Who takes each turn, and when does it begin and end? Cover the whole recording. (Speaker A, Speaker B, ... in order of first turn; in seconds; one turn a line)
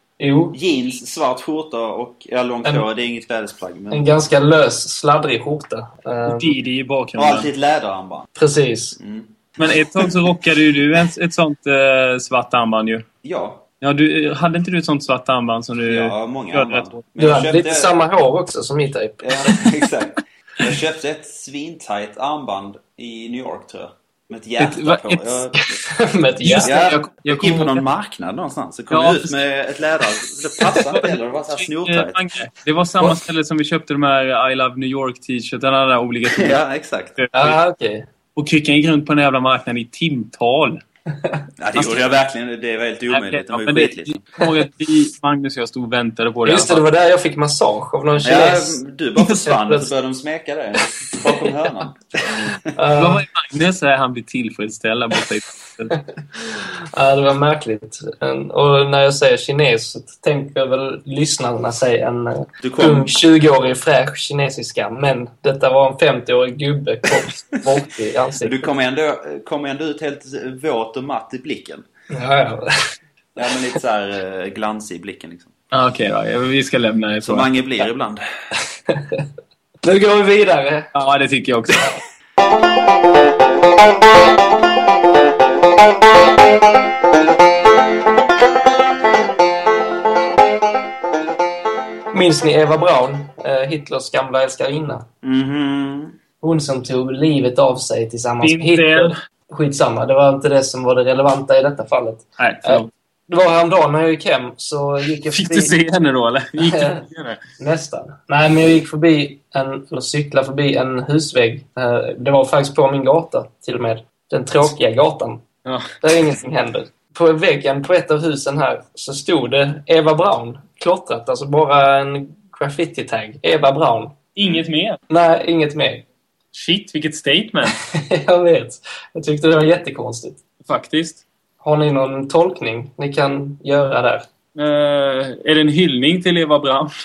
Speaker A: 0.2-0.6
Speaker B: 0.5-4.1
Speaker A: 3.9-6.6
Speaker C: 6.2-7.5
Speaker B: 7.2-8.3
Speaker A: 8.4-8.9
Speaker B: 9.0-9.7
Speaker C: 9.6-13.0
Speaker B: 13.2-13.6
Speaker C: 13.8-17.0
Speaker B: 15.8-18.0
Speaker A: 17.2-19.7
Speaker B: 19.2-25.6
Speaker C: 24.6-25.4
Speaker A: 25.5-26.8
Speaker C: 26.4-27.8
Speaker B: 26.6-32.2
Speaker C: 28.9-29.4
Speaker C: 31.0-36.6
Speaker B: 36.3-37.2
Speaker C: 37.2-37.6
Speaker A: 37.3-38.1
Speaker C: 38.4-40.8
Speaker B: 41.6-44.2
Speaker C: 41.7-42.0
Speaker C: 43.1-46.9
Speaker A: 46.4-49.9
Speaker B: 48.2-52.6
Speaker A: 52.7-53.2
Speaker C: 53.0-56.0
Speaker A: 56.4-68.7
Speaker B: 62.6-63.2
Speaker B: 68.4-71.9
Speaker A: 72.1-72.7
Speaker B: 73.3-75.5
Speaker C: 75.7-77.5
Speaker B: 77.2-78.2
Speaker A: 78.9-79.2
Speaker A: 79.8-80.9
Speaker C: 80.9-81.9
Speaker A: 92.1-95.0
Speaker B: 95.2-96.2
Speaker A: 96.4-105.7
Speaker C: 98.4-99.1
Speaker C: 102.4-102.9
Speaker C: 105.3-107.4
Speaker A: 106.6-107.0
Speaker A: 107.6-115.4
Speaker C: 115.6-115.9
Speaker A: 116.0-124.2
Speaker C: 124.4-125.0
Speaker A: 125.1-126.0
Speaker C: 126.5-127.8
Speaker A: 127.9-130.4
Speaker C: 130.6-131.2
Speaker A: 131.6-134.2
Speaker C: 134.6-136.9